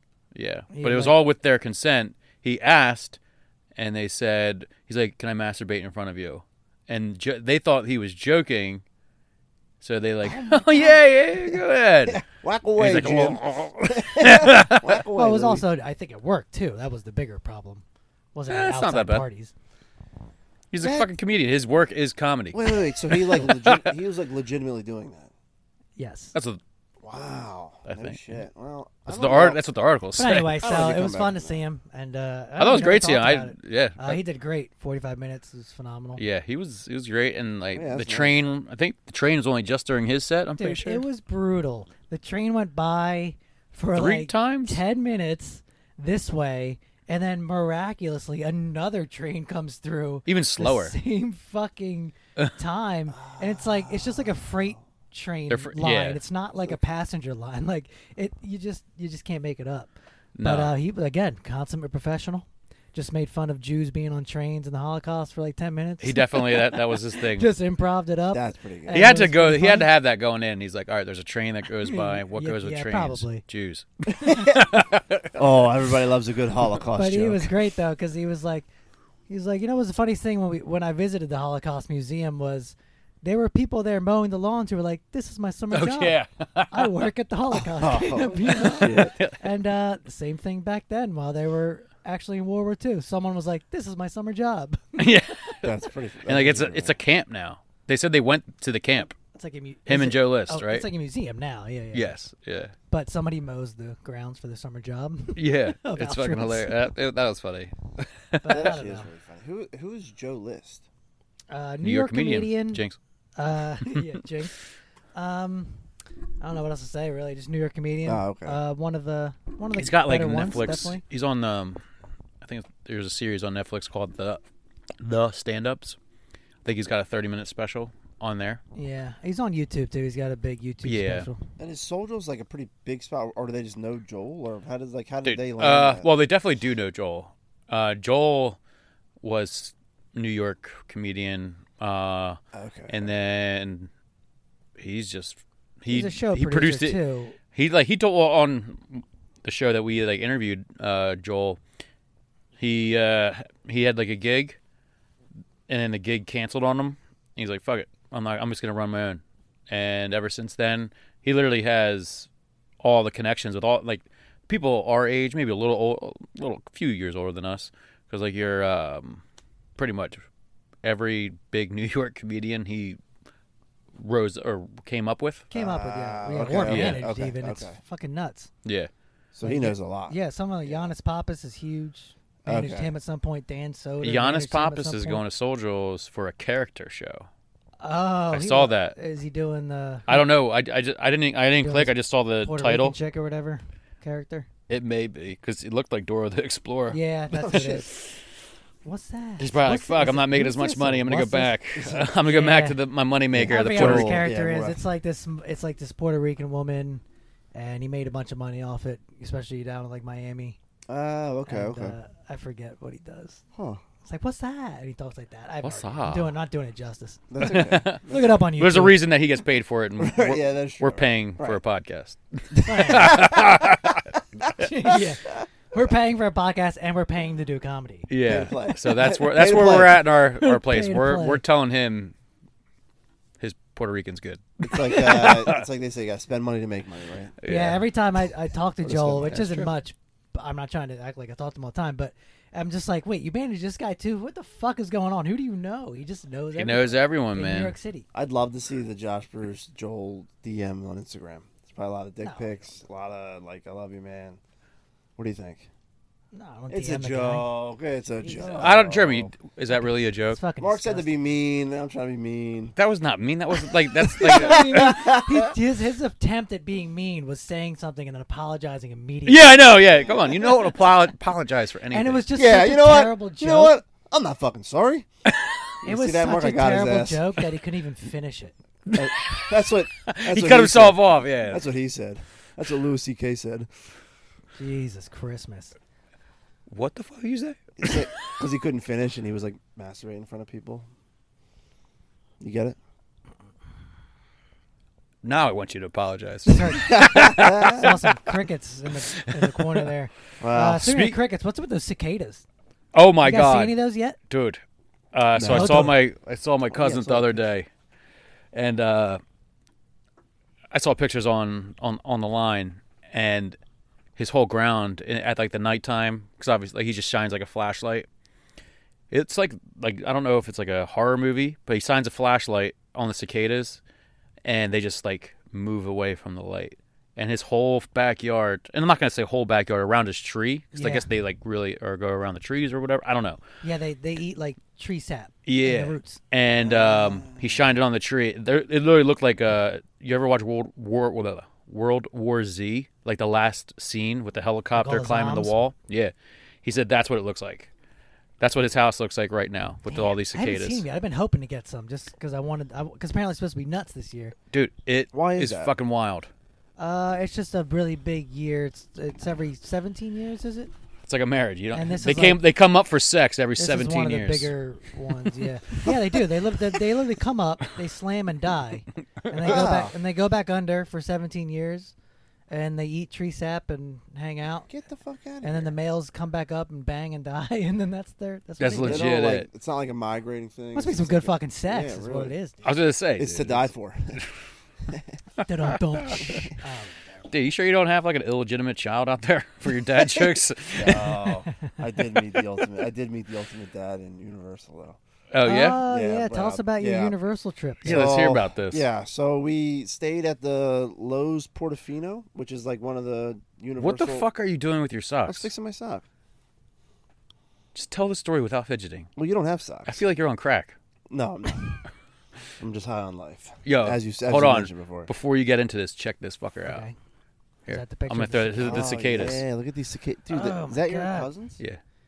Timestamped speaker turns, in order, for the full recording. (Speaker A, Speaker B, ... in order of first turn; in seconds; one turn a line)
Speaker A: 0.3-3.2
Speaker B: 0.7-1.2
Speaker A: 3.8-8.8
Speaker A: 9.8-12.3
Speaker B: 10.3-11.0
Speaker C: 12.1-15.7
Speaker A: 12.8-15.0
Speaker B: 15.2-17.8
Speaker B: 18.4-19.5
Speaker A: 18.5-19.2
Speaker A: 20.7-23.9
Speaker C: 20.8-21.1
Speaker C: 22.5-25.3
Speaker B: 26.0-26.4
Speaker A: 26.3-26.6
Speaker C: 27.0-29.6
Speaker A: 27.9-28.3
Speaker A: 29.1-30.6
Speaker B: 30.2-36.2
Speaker C: 30.6-31.6
Speaker A: 32.6-34.2
Speaker A: 36.2-41.0
Speaker C: 37.7-38.4
Speaker B: 40.6-69.9
Speaker A: 44.0-44.8
Speaker A: 50.3-51.0
Speaker C: 53.1-54.8
Speaker A: 55.5-56.2
Speaker A: 60.4-60.7
Speaker A: 66.0-67.5
Speaker C: 68.3-69.1
Speaker A: 68.9-75.4
Speaker B: 71.8-73.4
Speaker C: 74.2-74.7
Speaker C: 75.3-77.5
Speaker B: 77.0-78.7
Speaker B: 79.3-86.2
Speaker A: 85.7-86.9
Speaker B: 86.7-95.0
Speaker C: 87.6-89.2
Speaker A: 88.5-89.4
Speaker A: 95.0-95.7
Speaker C: 95.6-97.0
Speaker A: 96.3-99.2
Speaker B: 99.3-102.2
Speaker A: 99.9-100.9
Speaker A: 101.9-102.7
Speaker B: 102.9-106.8
Speaker A: 105.4-108.7
Speaker B: 108.4-109.1
Speaker C: 108.5-110.8
Speaker B: 111.5-112.8
Speaker A: 111.8-113.0
Speaker B: 113.4-114.6
Speaker B: 115.2-115.8
Speaker B: 116.4-121.0
Speaker C: 118.1-118.6
Speaker A: 119.8-121.8
Speaker A: 122.4-124.4
Speaker A: 125.0-126.0
Speaker A: 126.7-128.6
Speaker B: 128.8-131.5
Speaker A: 130.8-131.3
Speaker C: 131.6-136.1
Speaker A: 135.2-138.6
Speaker A: 139.2-143.9
Speaker C: 142.5-143.1
Speaker A: 144.8-147.0
Speaker B: 145.9-147.4
Speaker A: 147.5-151.6
Speaker A: 152.6-154.6
Speaker A: 155.7-162.3
Speaker A: 162.8-169.2
Speaker A: 169.8-170.2
Speaker A: 170.8-173.0
Speaker A: 174.0-175.5
Speaker B: 175.5-178.5
Speaker C: 175.5-177.8
Speaker A: 176.7-177.0
Speaker A: 178.7-178.9
Speaker C: 179.3-180.9
Speaker B: 179.4-185.2
Speaker C: 182.4-182.9
Speaker A: 184.0-187.3
Speaker B: 187.8-190.2
Speaker A: 188.3-188.9
Speaker A: 190.1-193.0
Speaker B: 191.6-194.5
Speaker A: 194.7-197.0
Speaker B: 196.9-197.9
Speaker C: 197.3-197.8
Speaker A: 197.5-198.1
Speaker B: 198.8-201.6
Speaker A: 199.4-204.3
Speaker C: 201.8-202.1
Speaker B: 202.2-202.8
Speaker C: 203.3-204.8
Speaker B: 203.5-207.0
Speaker B: 207.5-210.6
Speaker C: 210.9-211.9
Speaker B: 211.5-213.4
Speaker C: 213.6-213.8
Speaker B: 214.0-217.3
Speaker A: 215.6-216.3
Speaker C: 217.3-218.3
Speaker A: 217.4-218.0
Speaker B: 218.1-219.0
Speaker A: 218.6-224.0
Speaker C: 220.0-221.6
Speaker B: 222.6-223.2
Speaker C: 222.9-223.9
Speaker B: 224.6-228.1
Speaker A: 228.1-232.1
Speaker C: 228.2-230.0
Speaker B: 230.4-231.4
Speaker A: 233.4-235.6
Speaker C: 234.6-237.3
Speaker A: 237.4-237.8
Speaker B: 237.4-248.1
Speaker C: 238.8-239.7
Speaker A: 246.6-247.8
Speaker C: 248.1-254.4
Speaker B: 252.2-252.7
Speaker C: 255.2-255.7
Speaker B: 256.3-257.5
Speaker C: 256.7-259.3
Speaker B: 258.2-258.8
Speaker A: 258.4-260.4
Speaker B: 259.8-261.1
Speaker C: 260.6-262.7
Speaker A: 262.8-265.0
Speaker C: 263.9-265.6
Speaker B: 264.2-269.6
Speaker A: 269.3-272.2
Speaker C: 270.0-270.7
Speaker B: 271.9-273.8
Speaker C: 272.3-275.1
Speaker A: 275.3-275.7
Speaker C: 275.8-277.3
Speaker B: 275.8-278.6
Speaker A: 278.9-279.5
Speaker C: 278.9-283.7
Speaker A: 280.1-281.6
Speaker B: 284.6-285.8
Speaker A: 286.7-288.2
Speaker C: 287.8-290.9
Speaker C: 292.4-292.8
Speaker A: 295.2-298.0
Speaker B: 296.5-302.4
Speaker C: 296.8-297.9
Speaker A: 299.1-299.9
Speaker C: 300.4-300.9
Speaker A: 300.8-301.2
Speaker A: 302.9-303.8
Speaker B: 303.2-304.2
Speaker A: 304.3-304.6
Speaker A: 305.1-307.7
Speaker C: 305.4-306.0
Speaker B: 305.5-305.9
Speaker C: 306.7-307.5
Speaker A: 308.5-309.2
Speaker A: 310.7-313.6
Speaker A: 314.2-318.1
Speaker A: 319.1-323.8
Speaker A: 324.4-333.4
Speaker B: 330.8-331.1
Speaker B: 333.6-336.2
Speaker A: 335.5-347.7
Speaker C: 336.6-337.7
Speaker B: 344.7-345.6
Speaker A: 348.4-350.8
Speaker B: 349.9-354.4
Speaker A: 354.5-356.3
Speaker C: 355.1-355.7
Speaker B: 356.8-360.7
Speaker A: 361.1-364.5
Speaker B: 361.7-362.4
Speaker B: 363.6-371.9
Speaker A: 365.2-365.9
Speaker A: 369.2-369.7
Speaker C: 369.4-369.9
Speaker B: 372.5-374.7
Speaker C: 374.7-375.8
Speaker B: 375.4-379.1
Speaker A: 378.6-379.5
Speaker C: 378.8-382.3
Speaker B: 380.7-382.6
Speaker A: 382.6-384.3
Speaker C: 383.2-384.2
Speaker C: 384.9-385.2
Speaker B: 385.4-387.1
Speaker A: 385.7-386.4
Speaker C: 386.3-386.5
Speaker A: 387.3-391.3
Speaker C: 390.7-395.0
Speaker A: 395.3-395.8
Speaker B: 395.4-398.0
Speaker C: 395.9-397.1
Speaker A: 397.8-398.8
Speaker C: 397.8-404.2
Speaker A: 403.8-405.5
Speaker C: 405.3-406.1
Speaker A: 407.8-409.1
Speaker C: 409.2-410.0
Speaker A: 409.9-410.8
Speaker C: 411.1-411.8
Speaker C: 412.6-415.1
Speaker A: 413.6-416.8
Speaker B: 416.6-416.9
Speaker A: 417.7-419.4
Speaker B: 417.7-418.8
Speaker C: 418.6-421.6
Speaker B: 420.3-421.3